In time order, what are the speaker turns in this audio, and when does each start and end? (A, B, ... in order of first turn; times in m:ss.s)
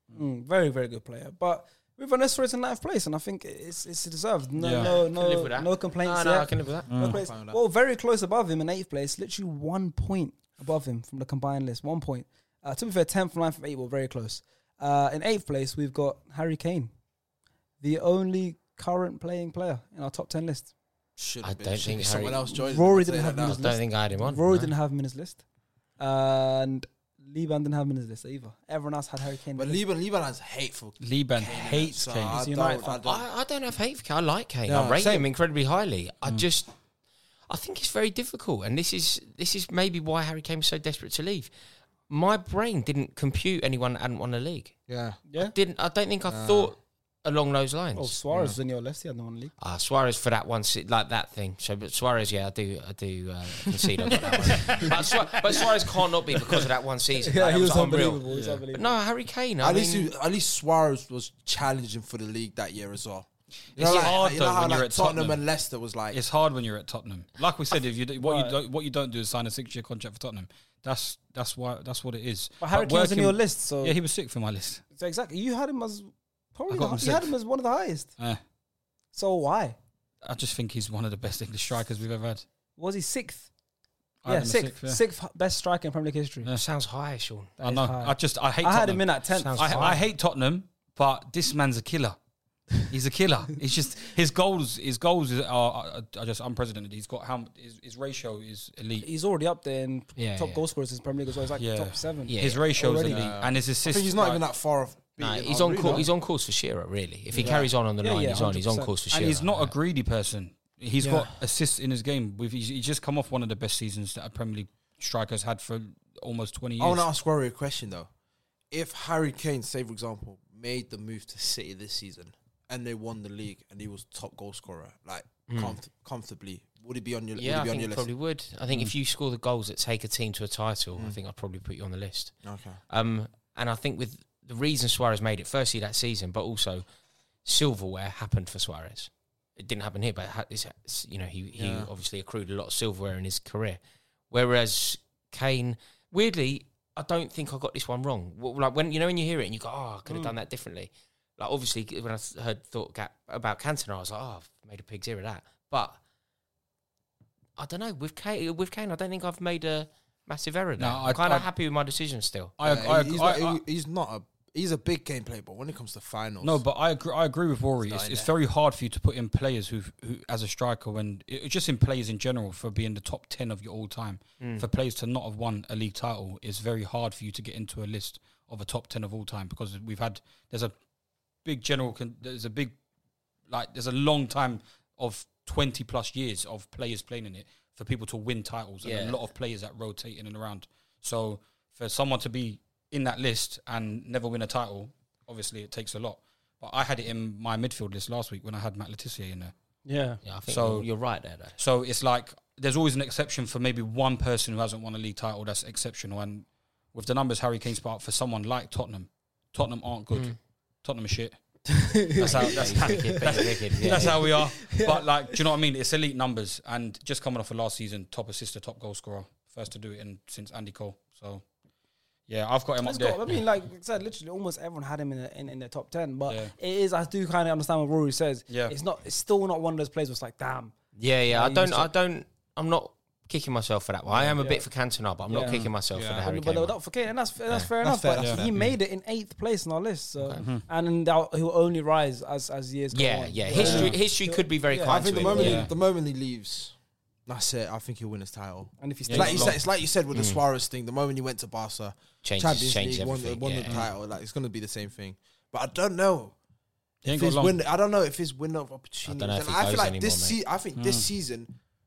0:00.1-0:16.9 A
0:04.6-0:04.9 B
0:04.8-0:06.9 C
0:06.9-0:07.2 B
0:06.9-0:07.6 D
0:17.8-0:20.7 A
0:21.2-0:23.7 D
0:21.4-0:22.5 C
0:22.5-0:25.4 A
0:23.4-0:24.7 C
0:26.0-0:29.8 A
0:29.6-0:33.3 D
0:31.0-0:32.4 B
0:32.3-0:33.0 A
0:33.0-0:36.7 C
0:34.7-0:35.3 D
0:37.5-0:41.5 C
0:42.1-0:44.8 C
0:44.9-0:45.2 D
0:45.3-0:45.5 A
0:45.4-0:48.2 C
0:46.3-0:46.7 D
0:47.9-0:49.5 A
0:48.3-0:48.6 D
0:49.6-1:00.1 C
0:54.4-0:55.0 A
0:54.7-0:55.2 B
0:57.2-0:58.9 A
0:58.3-0:58.6 B
0:59.6-1:06.2 D
1:03.7-1:05.4 B
1:06.1-1:14.8 B
1:08.2-1:08.6 A
1:12.6-1:14.0 A
1:15.0-1:18.1 A
1:16.7-1:17.3 B
1:19.1-1:19.8 A
1:20.2-1:22.4 B
1:22.8-1:23.5 A
1:24.2-1:25.0 B
1:24.3-1:26.5 A
1:26.6-1:27.6 C
1:27.6-1:32.2 B
1:27.6-1:30.0 A
1:29.3-1:30.0 C
1:32.8-1:39.1 B
1:39.0-1:43.3 A
1:40.2-1:40.6 C
1:41.6-1:44.4 B
1:42.3-1:42.6 C
1:43.1-1:46.1 D
1:45.2-1:49.7 C
1:47.4-1:47.7 D
1:48.0-1:48.9 A
1:49.1-1:57.0 B
1:51.0-1:51.3 A
1:56.8-1:58.1 D
1:58.7-2:08.1 D
2:05.5-2:05.8 C
2:07.4-2:16.8 C
2:12.4-2:12.8 D
2:17.4-2:23.8 C
2:21.5-2:21.9 D
2:24.3-2:36.0 C
2:30.1-2:30.3 A
2:37.6-2:42.6 C
2:40.8-2:41.5 B
2:42.6-2:43.6 B
2:42.6-2:46.6 D
2:46.4-3:00.7 B
2:47.9-2:48.3 C
2:54.4-2:54.7 C
3:01.4-3:02.8 B
3:03.5-3:19.5 B
3:08.8-3:09.2 C
3:19.9-3:20.2 A
3:20.2-3:21.6 C
3:20.5-3:20.9 B
3:21.6-3:31.4 B
3:30.1-3:30.4 C
3:31.7-3:35.4 A
3:32.2-3:34.2 C
3:32.2-3:41.4 B
3:42.3-3:43.2 B
3:42.8-3:50.7 A
3:46.3-3:46.5 B
3:48.5-3:48.8 B
3:51.0-3:56.8 C
3:51.3-3:51.9 A
3:54.4-3:54.7 A
3:55.3-3:55.7 A
3:55.4-3:56.2 B
3:56.2-4:05.6 A
3:57.8-3:58.5 D
3:58.2-3:58.8 B
4:02.9-4:05.7 C
4:03.5-4:04.0 D
4:03.6-4:03.9 B
4:04.9-4:06.8 D
4:05.3-4:05.7 B
4:07.3-4:16.4 D
4:08.8-4:09.6 A
4:09.1-4:09.6 B
4:10.1-4:10.4 C
4:12.2-4:13.8 C
4:17.0-4:17.6 B
4:17.1-4:21.5 D
4:19.1-4:20.4 C
4:20.8-4:21.1 B